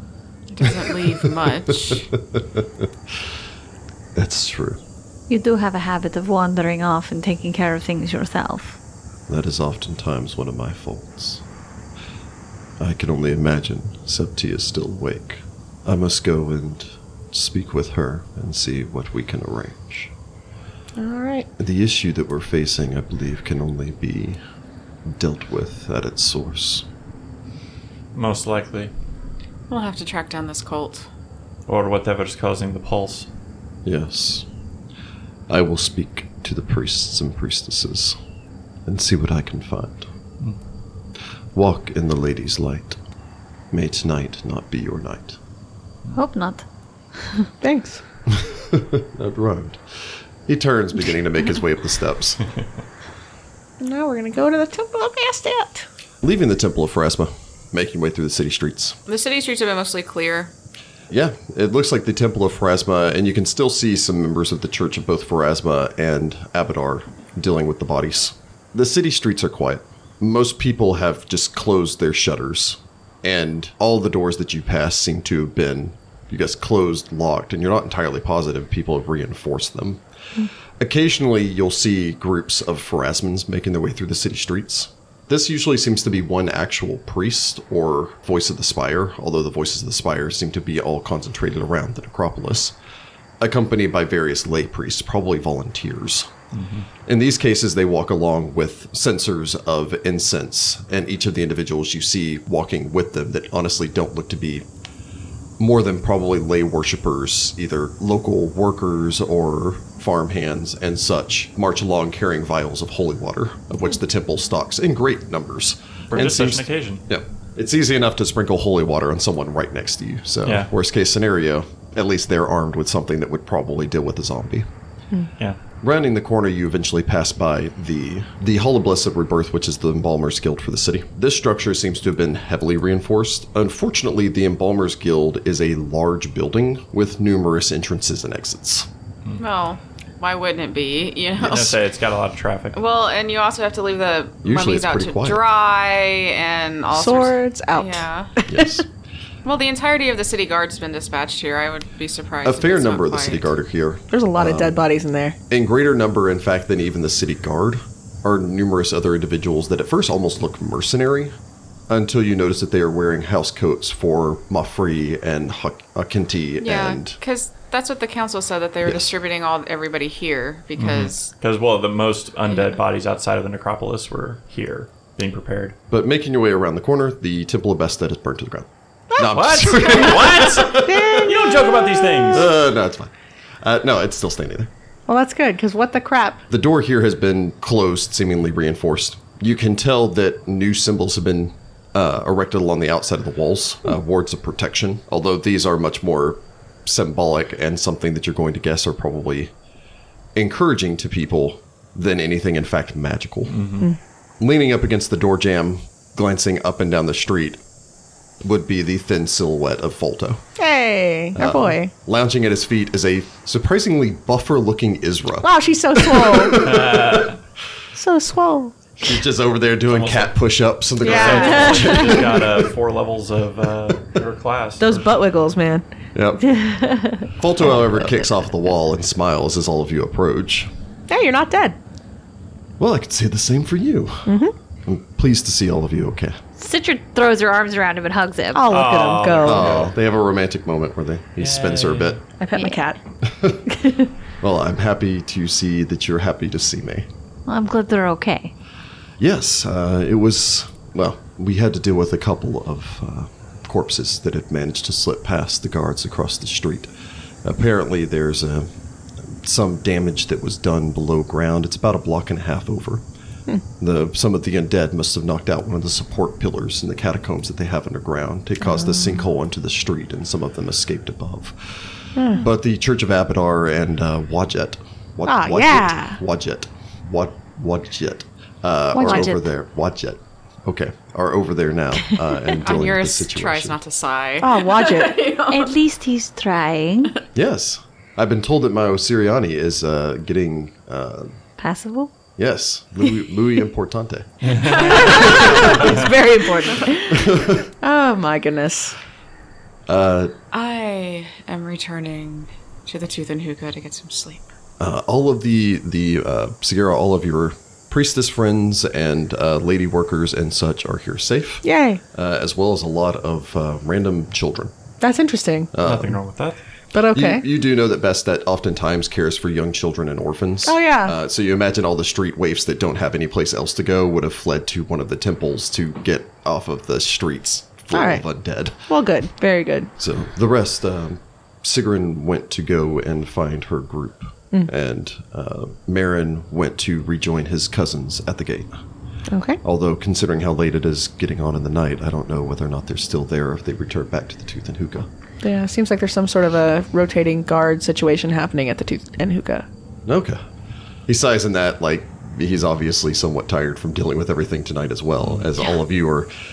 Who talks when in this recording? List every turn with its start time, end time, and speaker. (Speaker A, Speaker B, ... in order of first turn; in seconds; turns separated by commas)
Speaker A: 0.5-2.1, Speaker B: 0.6-3.3, Speaker B: 4.2-4.8, Speaker C: 5.3-8.8, Speaker B: 9.3-11.4, Speaker B: 12.8-20.1, Speaker D: 21.0-21.5, Speaker B: 21.6-24.4, Speaker B: 25.1-26.9, Speaker E: 28.1-28.9, Speaker A: 29.7-31.1, Speaker E: 31.7-33.3, Speaker B: 33.9-34.5, Speaker B: 35.5-38.2, Speaker B: 38.9-40.1, Speaker B: 41.5-43.0, Speaker B: 43.7-45.4, Speaker C: 46.1-46.6, Speaker C: 47.2-47.5, Speaker D: 47.6-48.0, Speaker B: 48.3-52.4, Speaker D: 53.8-55.9, Speaker B: 56.2-59.0, Speaker A: 59.1-60.5, Speaker B: 61.1-80.0, Speaker B: 80.8-92.8, Speaker B: 93.4-96.3, Speaker E: 96.5-96.9, Speaker B: 97.1-104.7, Speaker B: 105.6-124.7, Speaker E: 116.1-117.0, Speaker E: 120.5-120.7, Speaker B: 125.8-138.9, Speaker A: 139.4-141.8, Speaker B: 141.4-141.8, Speaker E: 141.4-142.8, Speaker A: 142.7-148.3, Speaker B: 144.4-145.4, Speaker D: 146.9-148.8, Speaker B: 148.5-148.9, Speaker A: 149.4-153.6, Speaker B: 152.4-154.8, Speaker D: 154.1-155.4, Speaker B: 155.5-161.3, Speaker B: 161.9-167.2, Speaker A: 166.6-171.3, Speaker B: 168.8-169.1, Speaker E: 170.8-175.8, Speaker B: 175.9-181.3, Speaker D: 179.1-180.2, Speaker E: 179.3-182.5, Speaker D: 180.8-182.3, Speaker B: 182.3-183.1, Speaker B: 183.6-184.7, Speaker D: 185.1-186.4, Speaker B: 186.5-199.5, Speaker B: 200.3-203.6, Speaker E: 203.5-203.9, Speaker B: 204.4-207.6, Speaker B: 208.4-210.4, Speaker D: 210.6-211.9, Speaker B: 211.3-217.3, Speaker D: 215.4-216.6, Speaker E: 216.6-217.4, Speaker D: 217.9-218.8, Speaker B: 219.0-222.6, Speaker E: 219.9-220.4, Speaker E: 221.0-225.2, Speaker D: 221.0-222.2, Speaker D: 224.8-225.8, Speaker B: 226.2-226.5, Speaker C: 226.5-227.3, Speaker B: 227.4-230.7, Speaker D: 231.1-231.8, Speaker B: 232.8-234.3, Speaker D: 234.3-234.5, Speaker B: 234.8-236.4, Speaker C: 236.6-239.0, Speaker D: 238.5-239.7, Speaker E: 238.7-239.9, Speaker B: 239.4-242.2, Speaker E: 241.4-242.2, Speaker D: 242.4-243.0, Speaker C: 242.6-242.8, Speaker B: 243.2-243.7, Speaker D: 243.7-244.1, Speaker B: 244.4-247.1, Speaker C: 247.5-248.5, Speaker B: 249.2-256.9, Speaker B: 257.4-258.7, Speaker B: 259.2-263.0, Speaker B: 263.8-283.8, Speaker D: 272.2-272.4, Speaker D: 275.2-276.2, Speaker C: 278.9-279.5, Speaker D: 279.1-279.3, Speaker A: 282.6-285.8, Speaker D: 284.4-285.3, Speaker C: 285.5-287.1, Speaker B: 287.4-291.4, Speaker C: 291.6-292.1, Speaker B: 292.4-295.9, Speaker E: 294.4-294.9, Speaker A: 294.6-295.8, Speaker D: 294.8-298.9, Speaker E: 295.7-296.1, Speaker B: 297.1-297.7, Speaker B: 299.9-300.3, Speaker A: 300.5-304.5, Speaker B: 304.8-314.7, Speaker D: 311.6-312.0, Speaker D: 315.0-315.7, Speaker B: 315.7-316.2, Speaker E: 315.8-316.6, Speaker D: 316.9-317.4, Speaker B: 317.1-328.9, Speaker D: 320.6-321.2, Speaker D: 327.9-328.2, Speaker D: 328.9-329.9, Speaker B: 330.0-338.7, Speaker D: 339.3-339.6, Speaker B: 339.6-345.1, Speaker D: 345.4-349.7, Speaker B: 350.1-350.4, Speaker B: 351.1-356.3, Speaker E: 355.2-355.5